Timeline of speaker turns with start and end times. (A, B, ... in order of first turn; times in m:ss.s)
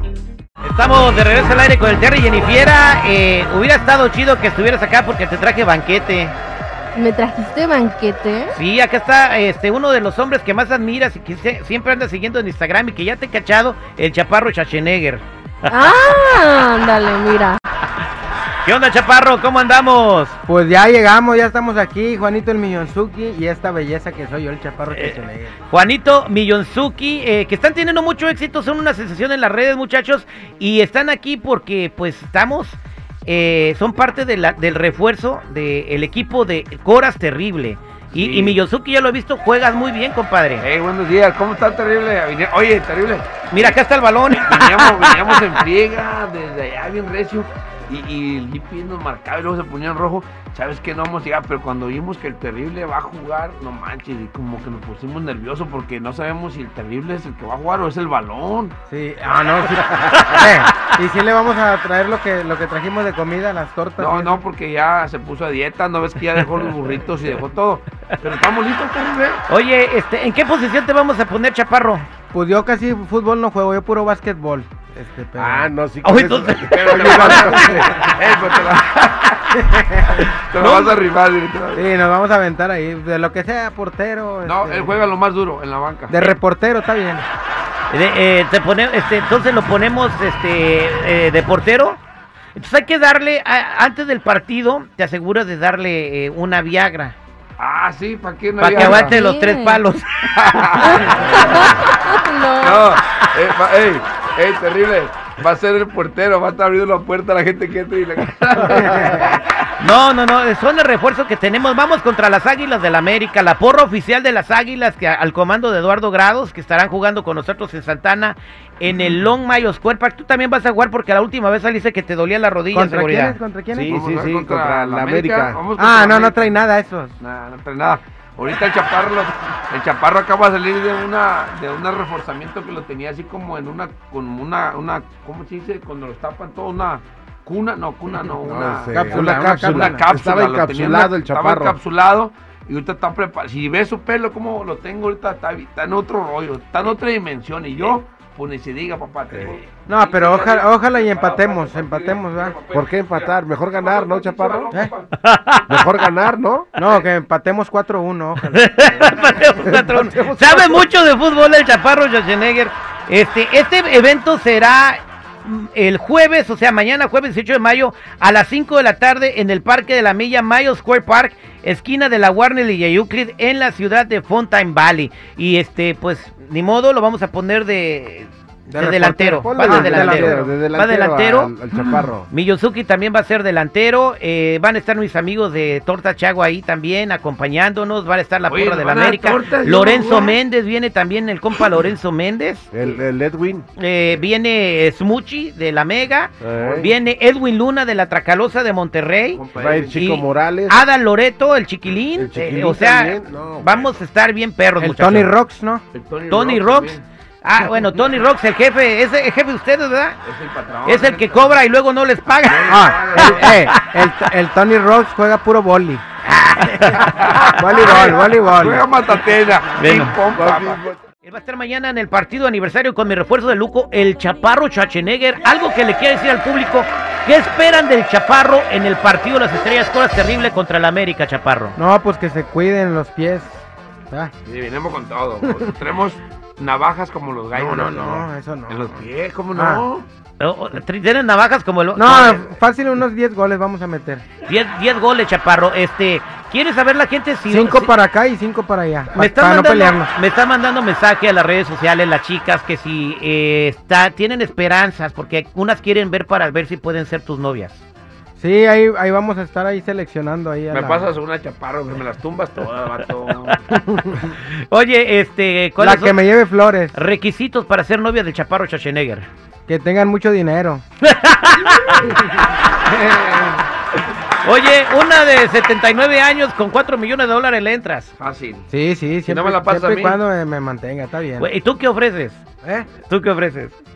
0:00.6-0:06.3 A
0:07.0-0:08.6 B
0:08.5-0:15.8 A
0:15.7-0:17.6 B
0:18.6-0:20.4 A
0:20.5-0:25.6 C
0:24.9-0:40.6 A
0:38.2-0:38.6 D
0:40.6-0:43.8 D
0:43.5-0:45.4 A
0:44.4-0:58.8 D
0:58.9-1:04.4 C
1:04.0-1:09.4 D
1:09.5-1:12.1 A
1:12.3-1:15.7 C
1:15.4-1:17.8 E
1:16.0-1:17.6 A
1:16.7-1:21.8 D
1:16.9-1:17.8 C
1:19.7-1:20.2 C
1:20.6-1:21.0 A
1:21.7-1:25.0 C
1:24.4-1:26.3 D
1:26.1-1:27.3 C
1:27.9-1:32.0 A
1:32.6-1:37.2 A
1:37.6-1:39.1 D
1:38.6-1:40.7 A
1:38.8-1:39.8 B
1:40.4-1:41.7 D
1:40.8-1:42.9 B
1:42.6-1:49.7 D
1:49.8-2:03.4 A
2:02.7-2:04.0 C
2:03.7-2:06.6 D
2:03.7-2:05.6 E
2:05.8-2:07.2 C
2:07.2-2:35.2 D
2:18.4-2:21.8 E
2:18.9-2:20.1 C
2:29.9-2:32.6 C
2:32.7-2:34.7 E
2:35.2-2:35.8 A
2:35.7-2:36.7 E
2:36.8-2:39.8 C
2:38.5-3:01.5 A
2:39.6-2:40.8 E
2:58.7-3:00.5 C
2:59.4-3:02.3 E
3:02.3-3:12.7 A
3:08.5-3:10.4 D
3:12.7-3:13.6 E
3:13.8-3:25.3 A
3:16.4-3:16.9 E
3:19.3-3:20.1 D
3:19.6-3:20.8 E
3:22.2-3:23.8 E
3:24.8-3:25.8 C
3:25.9-3:27.1 D
3:26.3-3:30.2 A
3:30.2-3:31.6 D
3:30.9-3:33.7 A
3:32.4-3:33.7 D
3:32.7-3:36.0 C
3:36.3-3:37.5 A
3:36.8-3:40.9 D
3:37.5-3:38.9 C
3:39.8-3:40.2 A
3:40.4-3:41.0 E
3:41.2-3:51.8 A
3:51.8-3:54.3 C
3:54.5-4:00.1 D
3:57.5-3:59.8 C
4:00.4-4:02.5 A
4:02.0-4:04.2 C
4:04.4-4:07.9 A
4:07.5-4:10.1 C
4:09.2-4:17.8 A
4:18.4-4:21.1 C
4:20.7-4:23.6 D
4:23.7-4:26.3 A
4:25.8-4:27.0 C
4:26.9-4:29.3 A
4:29.7-4:30.8 C
4:31.0-4:32.2 A
4:32.9-4:33.6 D
4:34.4-4:38.1 A
4:38.2-4:38.7 D
4:38.7-4:41.5 C
4:39.3-4:40.2 D
4:41.4-4:42.4 A
4:42.6-4:42.9 C
4:43.0-4:43.7 A